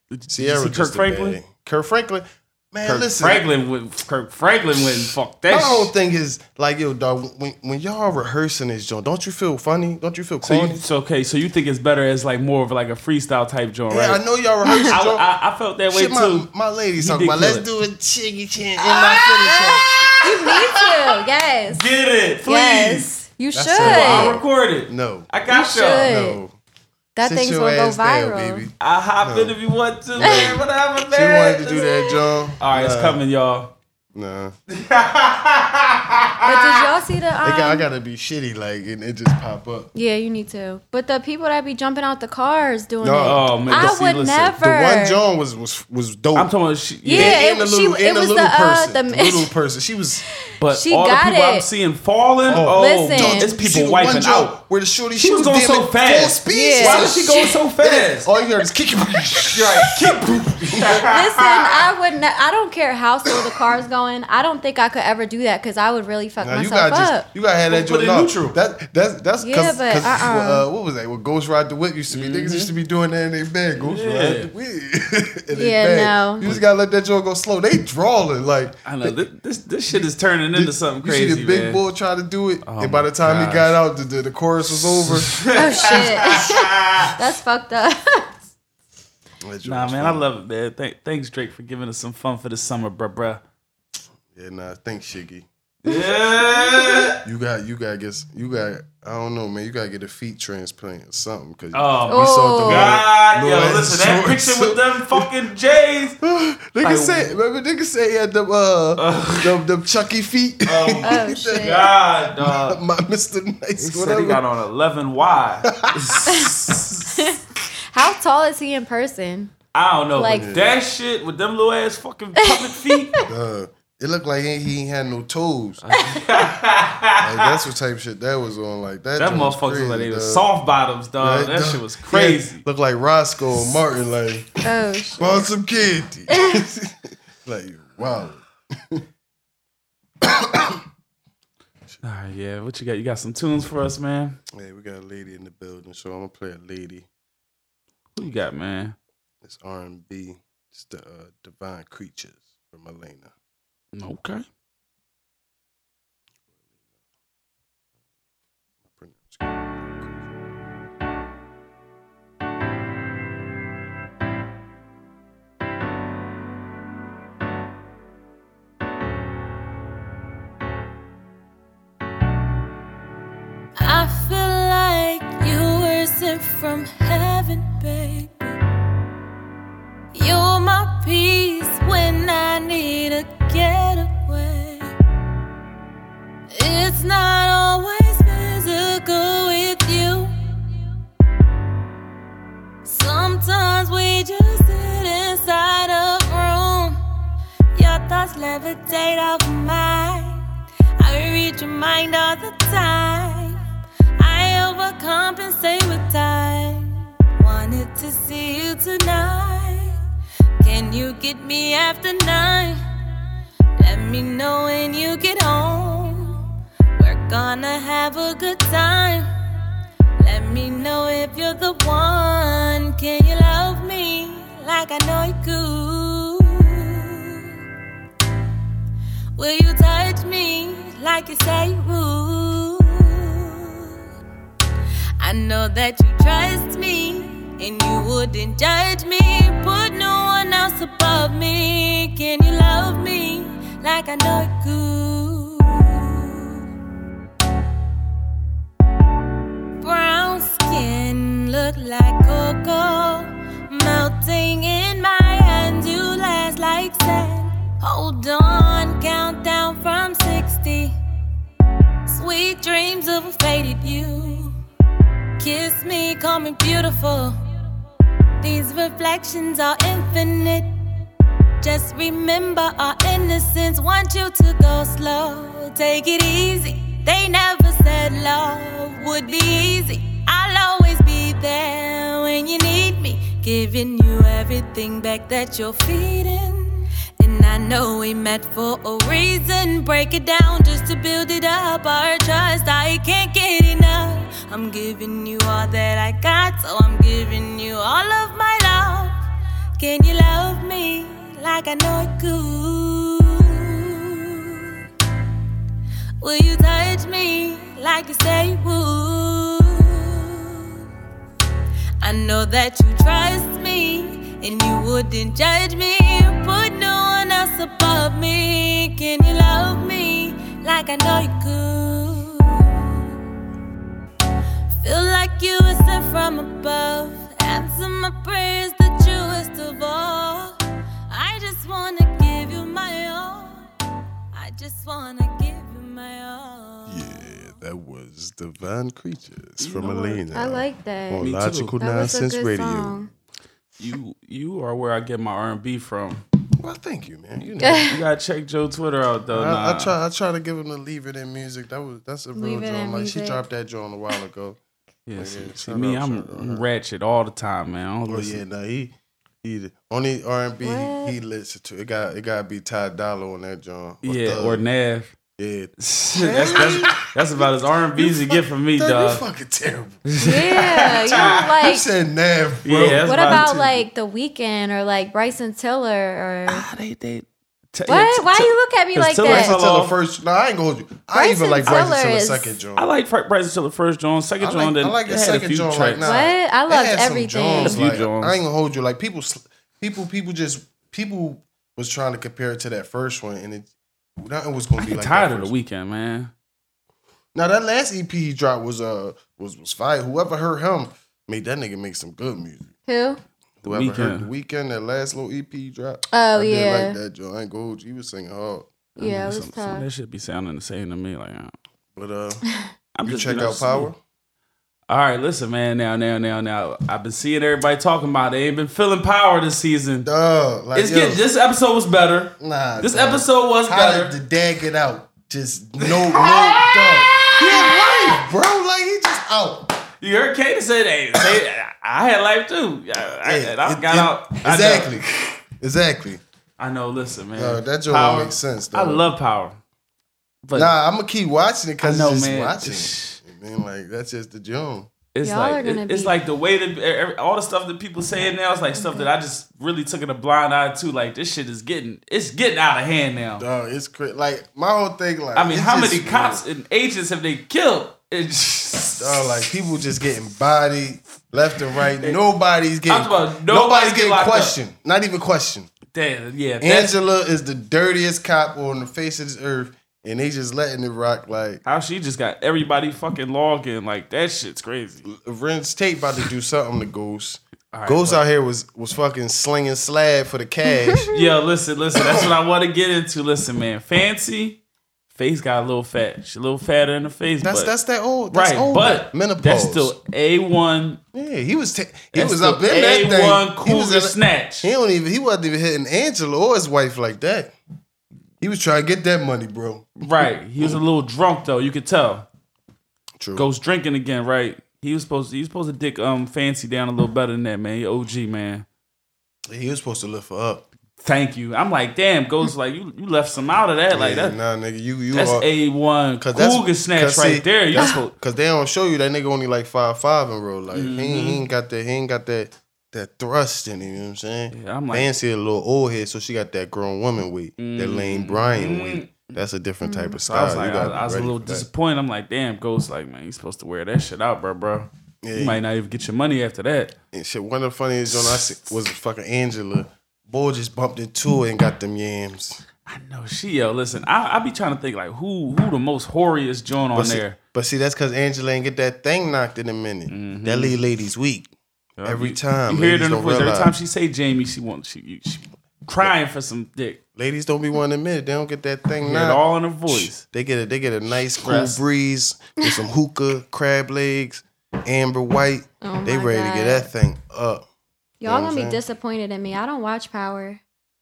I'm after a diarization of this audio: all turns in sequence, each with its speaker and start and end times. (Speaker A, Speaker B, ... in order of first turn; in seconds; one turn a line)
Speaker A: 0.1-1.4
Speaker B: 0.3-3.5
Speaker A: 2.8-5.9
Speaker B: 4.8-10.8
Speaker A: 10.4-14.2
Speaker B: 13.9-15.3
Speaker A: 14.8-17.7
Speaker B: 15.9-19.9
Speaker A: 18.8-20.9
Speaker C: 19.5-21.9
Speaker A: 21.7-23.1
Speaker C: 22.4-24.4
Speaker B: 23.5-25.3
Speaker A: 23.8-26.1
Speaker C: 25.5-26.4
Speaker B: 25.9-26.6
Speaker C: 27.2-28.7
Speaker B: 27.2-29.6
Speaker A: 28.8-31.9
Speaker B: 30.1-33.2
Speaker C: 30.2-30.6
Speaker C: 31.8-32.1
Speaker A: 32.6-33.7
Speaker B: 34.1-34.5
Speaker A: 34.7-36.9
Speaker C: 36.4-37.9
Speaker B: 37.4-39.9
Speaker C: 40.0-45.2
Speaker B: 43.0-46.5
Speaker A: 43.2-44.5
Speaker A: 46.4-47.4
Speaker C: 47.0-49.5
Speaker B: 47.1-50.2
Speaker A: 50.6-54.6
Speaker C: 50.6-51.7
Speaker B: 52.5-61.4
Speaker C: 52.5-53.5
Speaker A: 55.2-58.3
Speaker C: 56.5-57.6
Speaker A: 59.5-61.4
Speaker C: 61.0-67.3
Speaker B: 66.4-79.2
Speaker A: 67.7-68.6
Speaker C: 69.4-70.7
Speaker A: 72.1-72.7
Speaker A: 73.8-74.5
Speaker C: 75.5-76.5
Speaker A: 78.8-81.8
Speaker B: 80.5-86.0
Speaker A: 82.6-83.8
Speaker A: 84.7-87.1
Speaker C: 85.5-88.4
Speaker B: 89.4-90.3
Speaker A: 89.7-93.4
Speaker B: 94.3-95.5
Speaker A: 95.8-97.2
Speaker B: 97.2-105.3
Speaker A: 101.7-106.2
Speaker C: 102.1-103.0
Speaker B: 106.2-114.4
Speaker A: 106.8-107.3
Speaker A: 109.0-109.6
Speaker A: 110.7-112.8
Speaker C: 111.0-111.9
Speaker A: 113.8-117.3
Speaker B: 115.7-116.4
Speaker C: 117.1-119.5
Speaker A: 119.7-123.2
Speaker C: 120.2-120.5
Speaker B: 120.3-120.8
Speaker C: 122.4-123.3
Speaker B: 123.3-125.8
Speaker A: 125.8-127.5
Speaker B: 127.2-130.5
Speaker A: 129.2-132.7
Speaker B: 131.2-134.6
Speaker C: 134.6-135.5
Speaker B: 135.2-139.0
Speaker C: 136.3-136.6
Speaker B: 140.2-140.8
Speaker A: 142.0-144.4
Speaker B: 144.5-147.1
Speaker A: 148.2-149.0
Speaker B: 149.4-153.3
Speaker A: 153.9-154.4
Speaker B: 158.8-160.2
Speaker D: 173.8-178.6
Speaker D: 180.1-184.9
Speaker D: 186.5-190.4
Speaker D: 192.8-197.0
Speaker D: 197.7-200.4
Speaker D: 201.0-203.6
Speaker D: 204.2-210.0
Speaker D: 210.6-212.8
Speaker D: 213.8-216.4
Speaker D: 217.0-219.3
Speaker D: 220.2-227.5
Speaker D: 229.4-234.0
Speaker D: 235.2-246.7
Speaker D: 249.8-260.9
Speaker D: 262.1-264.6
Speaker D: 265.4-267.4
Speaker D: 268.4-270.7
Speaker D: 271.6-299.2
Speaker D: 299.8-304.7
Speaker D: 306.2-310.8
Speaker D: 312.0-323.1
Speaker D: 324.7-330.6
Speaker D: 331.1-333.6
Speaker D: 334.3-337.6
Speaker B: 336.9-343.1
Speaker A: 339.6-340.2
Speaker C: 340.3-341.3
Speaker A: 341.2-341.8
Speaker C: 341.8-343.1
Speaker A: 343.8-346.2
Speaker B: 346.6-347.9
Speaker C: 347.6-348.0
Speaker A: 347.8-349.9
Speaker B: 349.3-354.6
Speaker C: 352.4-353.4
Speaker A: 355.1-358.4
Speaker B: 355.2-356.7
Speaker B: 358.1-364.6
Speaker C: 360.6-361.1
Speaker A: 364.0-365.1
Speaker B: 365.4-370.1
Speaker A: 365.8-369.2
Speaker A: 370.1-371.5
Speaker C: 370.2-371.9
Speaker B: 370.7-373.9
Speaker A: 372.6-373.5
Speaker C: 372.9-376.7
Speaker A: 376.5-380.0
Speaker C: 377.9-379.5
Speaker B: 379.2-382.9
Speaker C: 381.1-382.6
Speaker A: 382.8-386.1
Speaker B: 384.4-395.5
Speaker C: 386.0-387.8
Speaker A: 387.6-388.4
Speaker A: 394.8-396.3
Speaker B: 397.3-402.7
Speaker C: 402.9-403.2
Speaker B: 403.6-408.7
Speaker A: 403.6-404.3
Speaker C: 406.1-407.0
Speaker C: 409.0-409.9
Speaker A: 409.0-411.5
Speaker B: 411.9-412.4
Speaker A: 412.9-413.9
Speaker B: 413.0-414.0
Speaker A: 414.9-420.1
Speaker B: 420.0-421.3
Speaker A: 420.8-424.1
Speaker B: 422.4-429.8
Speaker A: 425.8-428.2
Speaker A: 430.0-435.0
Speaker B: 433.0-436.2
Speaker A: 436.6-439.6
Speaker B: 437.4-439.1
Speaker A: 440.4-440.7
Speaker B: 440.5-444.9
Speaker A: 441.8-443.2
Speaker A: 445.1-453.4
Speaker C: 445.2-446.1
Speaker C: 448.8-449.1
Speaker B: 453.4-456.4
Speaker A: 455.4-459.4
Speaker B: 459.0-465.7
Speaker A: 462.9-464.6
Speaker A: 465.9-466.9
Speaker B: 466.6-471.6
Speaker A: 471.6-475.1
Speaker B: 475.1-481.1
Speaker A: 477.7-478.2
Speaker A: 481.1-484.6
Speaker B: 481.9-482.3
Speaker A: 485.1-487.7
Speaker B: 487.4-490.0
Speaker A: 488.3-491.0
Speaker B: 491.1-497.5
Speaker A: 492.1-494.7
Speaker B: 498.4-500.8
Speaker A: 500.0-502.3
Speaker B: 503.2-503.5
Speaker A: 503.4-508.6
Speaker B: 509.5-510.7
Speaker A: 511.0-514.4
Speaker B: 513.9-515.5
Speaker A: 515.1-518.1
Speaker B: 516.2-531.7
Speaker A: 520.7-521.4
Speaker A: 524.5-525.1
Speaker A: 527.6-529.3
Speaker C: 529.8-530.2
Speaker A: 530.2-537.0
Speaker B: 535.2-535.6
Speaker B: 537.1-542.6
Speaker A: 538.1-538.4
Speaker A: 542.9-547.4
Speaker B: 546.9-551.5
Speaker A: 550.1-550.8
Speaker A: 552.0-557.0
Speaker B: 552.0-553.7
Speaker B: 557.2-567.7
Speaker A: 559.0-560.2
Speaker A: 561.4-561.8
Speaker C: 565.8-566.9
Speaker C: 568.2-570.6
Speaker B: 568.2-568.8